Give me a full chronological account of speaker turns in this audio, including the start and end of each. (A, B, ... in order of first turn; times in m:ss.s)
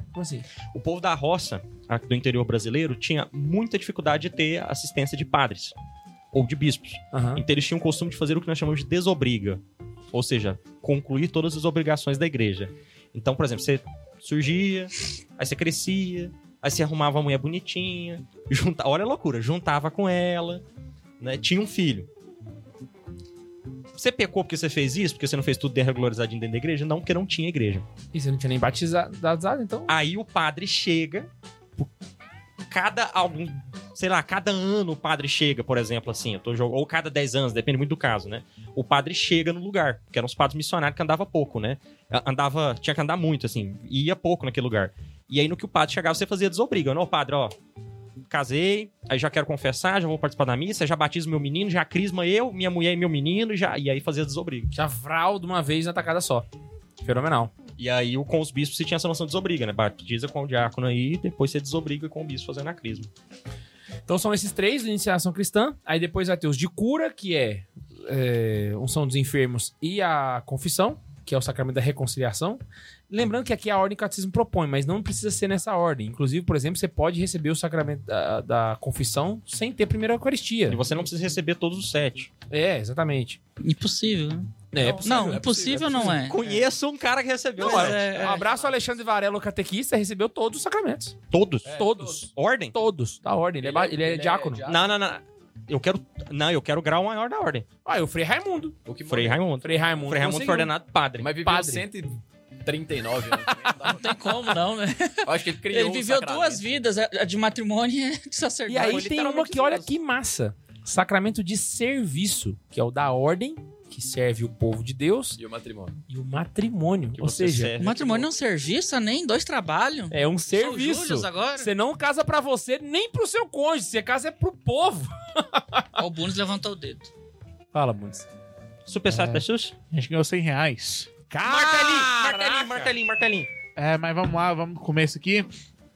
0:00.1-0:00.5 A
0:00.7-0:05.7 B
0:06.3-0:09.6 B
0:07.1-0:07.4 A
0:10.1-0:20.6 B
0:21.2-0:22.1 B
0:24.0-0:27.8 B
0:28.1-0:29.9 A
0:29.9-0:31.9 B
0:32.7-0:47.5 B
0:48.3-0:54.7 B
0:54.7-0:56.4 A
0:57.0-0:57.5 A
0:57.8-1:03.1 B
1:04.1-1:20.8 A
1:20.7-1:22.3 B
1:22.5-1:23.4 A
1:23.6-1:26.4 C
1:24.7-1:26.2 A
1:24.7-1:26.6 D
1:26.2-1:28.4 B
1:27.6-1:28.4 C
1:27.6-1:31.2 A
1:31.3-1:31.7 B
1:31.6-1:32.3 D
1:31.7-1:34.6 A
1:32.3-1:32.7 B
1:33.6-1:34.9 D
1:34.6-1:37.7 B
1:37.8-1:38.8 A
1:38.8-1:39.4 D
1:39.1-1:41.3 B
1:39.6-1:40.7 A
1:41.2-1:44.1 D
1:41.4-1:41.8 A
1:43.8-1:49.5 C
1:45.2-1:46.6 D
1:48.7-1:55.4 A
1:48.8-1:49.9 B
1:55.4-1:56.0 D
1:56.1-1:57.8 A
1:57.2-1:58.3 B
1:57.8-2:01.7 C
2:00.1-2:05.8 A
2:06.0-2:07.1 C
2:07.7-2:08.3 A
2:08.9-2:09.7 B
2:09.1-2:09.4 A
2:09.9-2:11.1 E
2:11.3-2:12.9 A
2:11.4-2:13.5 B
2:13.8-2:15.5 E